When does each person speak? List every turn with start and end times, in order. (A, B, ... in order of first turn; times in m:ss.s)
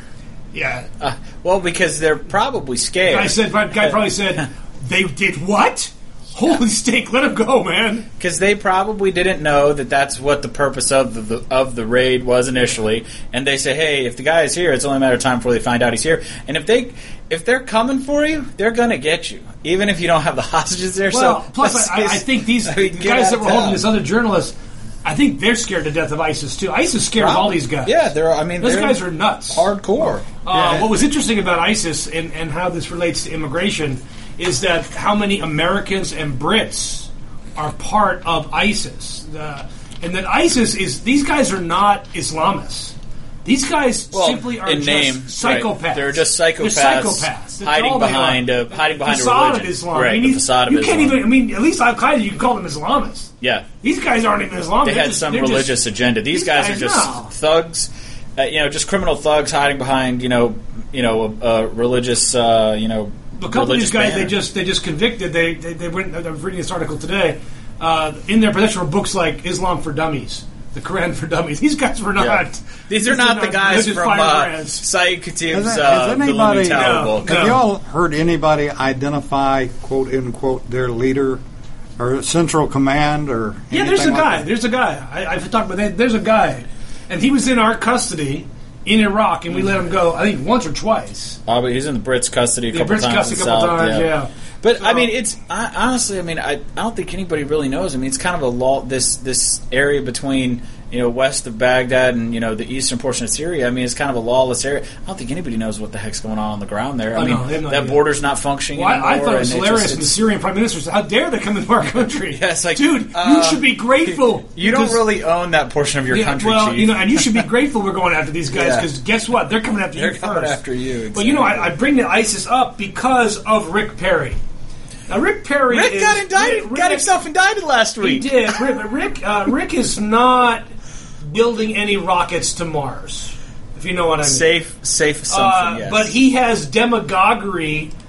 0:00.5-0:00.9 A
0:01.0-0:03.9 B
0:03.1-0:08.1 A
0:08.2-0:23.8 B
0:21.1-0:27.9 A
0:27.2-0:30.8 B
0:28.6-0:53.3 A
0:44.1-0:51.2 B
0:53.4-0:53.7 B
0:53.8-0:55.8 A
0:54.8-1:04.4 B
0:56.3-0:57.3 A
1:03.4-1:14.8 A
1:12.2-1:17.5 B
1:15.5-1:21.4 C
1:16.7-1:17.6 A
1:22.0-1:24.5 C
1:23.7-1:31.4 A
1:29.5-1:29.8 B
1:31.5-1:34.1 B
1:32.7-1:35.1 A
1:34.6-1:50.2 B
1:47.1-1:48.0 A
1:48.7-1:55.0 A
1:52.3-1:57.4 B
1:56.1-2:00.6 A
1:58.5-1:58.8 B
1:59.9-2:01.7 B
2:01.1-2:04.4 A
2:05.1-2:07.1 A
2:05.7-2:08.6 B
2:08.0-2:10.6 A
2:11.2-2:14.5 A
2:14.2-2:16.1 B
2:15.3-2:17.9 A